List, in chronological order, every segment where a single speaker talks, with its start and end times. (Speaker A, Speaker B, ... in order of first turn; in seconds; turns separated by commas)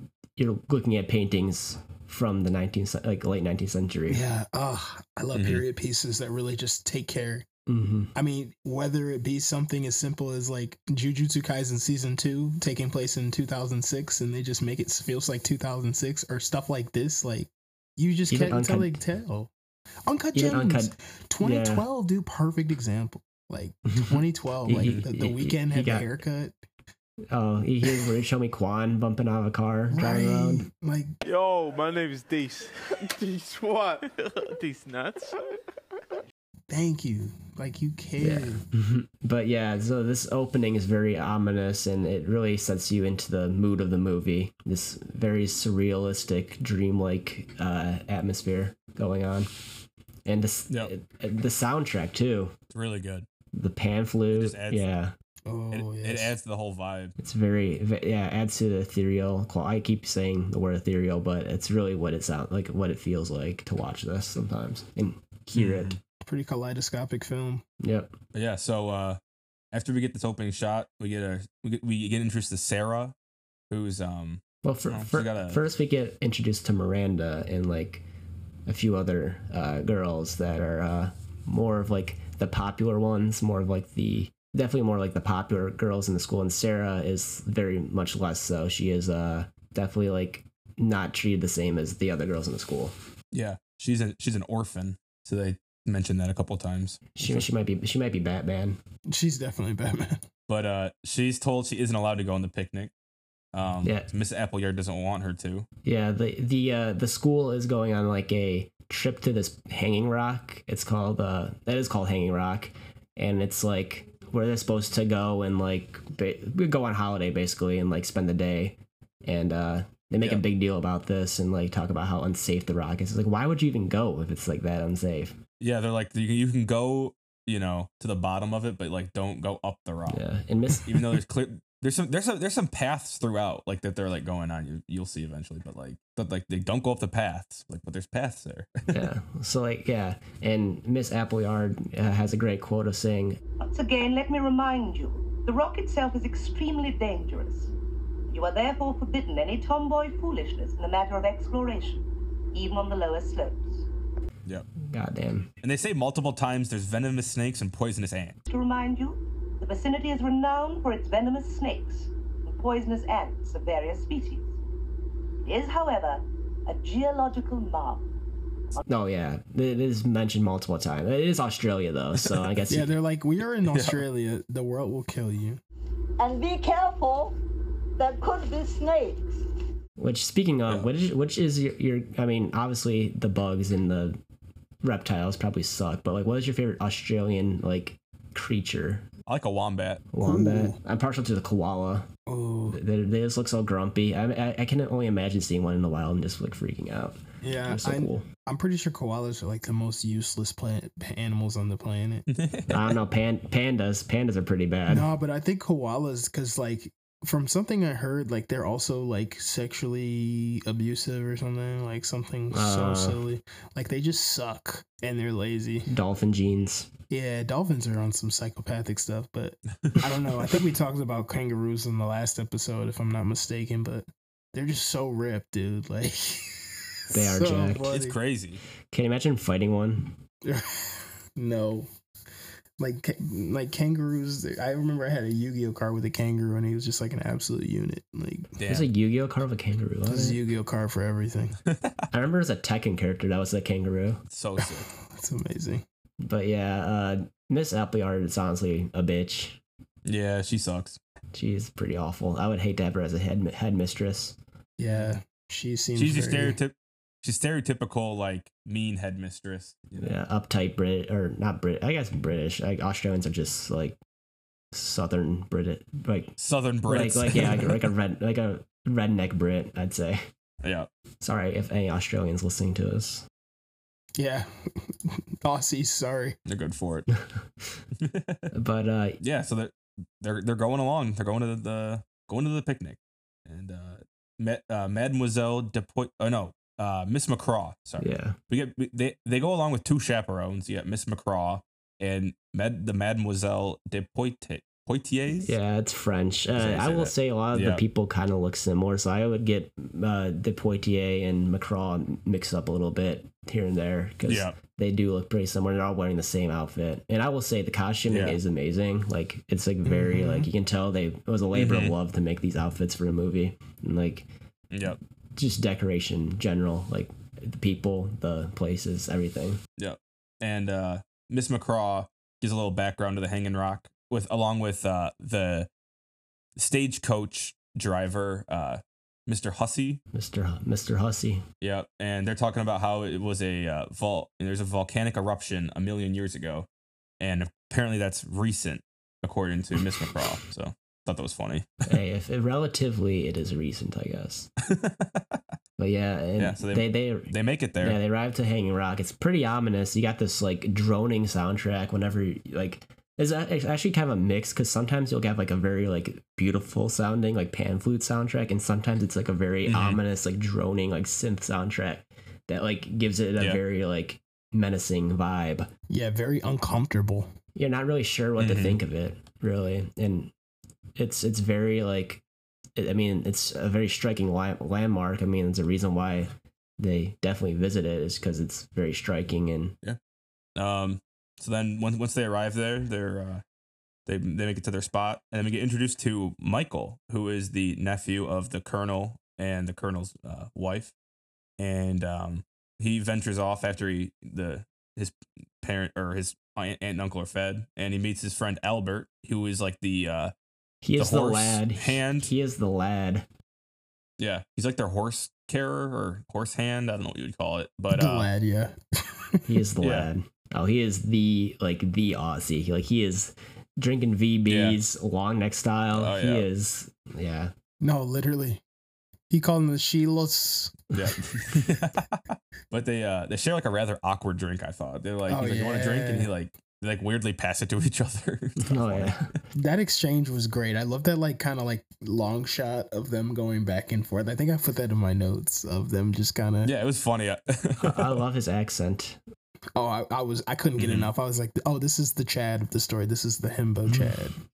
Speaker A: 0.3-4.2, Speaker B: 4.1-7.5, Speaker C: 5.3-5.6, Speaker A: 7.7-8.1, Speaker B: 8.1-19.5, Speaker A: 18.3-19.0, Speaker B: 20.1-26.5, Speaker A: 20.3-21.8, Speaker A: 23.9-26.2, Speaker C: 24.8-25.0, Speaker A: 27.3-30.7, Speaker B: 29.9-31.2, Speaker D: 31.2-35.3, Speaker B: 36.7-38.6, Speaker A: 38.2-49.5, Speaker A: 50.2-52.5, Speaker C: 52.7-53.3, Speaker A: 53.5-55.1, Speaker C: 54.3-54.9, Speaker B: 55.5-56.3, Speaker C: 55.7-57.1, Speaker A: 57.2-65.9, Speaker C: 65.5-66.0, Speaker B: 66.2-67.6, Speaker A: 67.8-68.1, Speaker C: 68.3-69.2, Speaker C: 69.7-73.1, Speaker C: 73.7-75.6, Speaker A: 74.6-78.0, Speaker A: 78.7-92.9, Speaker C: 93.3-97.4, Speaker A: 97.2-98.8, Speaker B: 99.1-100.2, Speaker C: 100.5-102.9, Speaker C: 103.5-105.7, Speaker A: 105.8-125.4, Speaker C: 125.6-130.2, Speaker A: 130.1-131.2, Speaker C: 130.8-139.0, Speaker A: 138.9-143.4, Speaker E: 143.6-147.7, Speaker E: 148.3-153.9, Speaker A: 154.8-155.5, Speaker C: 155.6-158.3, Speaker E: 158.5-164.6, Speaker E: 165.4-168.1, Speaker A: 168.8-172.9, Speaker B: 172.7-175.6, Speaker C: 173.7-174.0, Speaker F: 176.2-177.3, Speaker F: 178.0-179.4, Speaker A: 180.0-184.2, Speaker A: 184.8-189.1, Speaker C: 189.3-190.0, Speaker A: 190.1-192.1, Speaker B: 190.2-190.8, Speaker B: 192.3-192.8, Speaker A: 192.7-198.2, Speaker B: 197.4-202.2, Speaker C: 202.3-202.9, Speaker A: 202.7-205.1, Speaker B: 204.9-215.9, Speaker A: 212.5-213.2, Speaker A: 215.9-216.9, Speaker B: 217.1-228.2, Speaker A: 227.1-227.9, Speaker C: 227.8-228.6, Speaker A: 228.9-230.2, Speaker B: 230.4-231.9, Speaker B: 232.8-238.5, Speaker C: 238.6-238.9, Speaker A: 238.7-240.4, Speaker B: 240.1-241.6, Speaker C: 241.7-242.0, Speaker A: 242.1-244.2, Speaker C: 244.3-244.9, Speaker B: 244.6-245.8, Speaker A: 246.2-249.6, Speaker C: 250.0-251.0, Speaker A: 251.3-254.4, Speaker B: 254.8-256.6, Speaker C: 255.9-260.1, Speaker A: 260.0-264.0, Speaker A: 264.7-270.3, Speaker C: 266.4-267.7, Speaker C: 270.6-270.9, Speaker A: 271.2-273.2, Speaker B: 274.1-276.4, Speaker C: 276.4-277.1, Speaker C: 278.0-278.5, Speaker A: 278.5-279.2, Speaker C: 279.2-295.6, Speaker A: 288.0-288.4, Speaker A: 295.4-314.3, Speaker C: 296.6-297.8, Speaker C: 304.2-304.6, Speaker C: 308.1-308.4, Speaker B: 309.8-310.5, Speaker C: 311.5-311.9, Speaker C: 314.7-315.0, Speaker A: 315.4-319.6, Speaker C: 319.8-325.7, Speaker C: 326.6-330.0, Speaker A: 330.1-331.4, Speaker C: 331.6-336.7, Speaker C: 337.2-341.7, Speaker A: 341.9-344.5, Speaker C: 344.6-345.4, Speaker A: 345.8-365.7, Speaker C: 346.4-348.0, Speaker C: 359.6-360.0, Speaker B: 365.9-367.3, Speaker A: 367.5-370.3, Speaker C: 368.4-368.8, Speaker A: 371.0-372.2, Speaker A: 372.8-379.8, Speaker C: 380.6-383.4, Speaker C: 384.1-390.9, Speaker C: 391.6-400.3, Speaker A: 400.8-403.3, Speaker C: 400.9-402.3, Speaker C: 404.2-408.3, Speaker B: 407.9-409.5, Speaker A: 409.4-417.5, Speaker C: 409.8-410.1, Speaker C: 414.4-414.8, Speaker C: 415.9-416.5, Speaker B: 417.8-418.6, Speaker B: 419.3-420.8, Speaker C: 420.9-429.1, Speaker B: 425.3-426.3, Speaker A: 428.6-429.3, Speaker B: 429.5-436.7, Speaker C: 436.6-438.2, Speaker A: 437.8-439.2, Speaker B: 439.8-444.4, Speaker C: 440.8-441.1, Speaker A: 443.9-444.1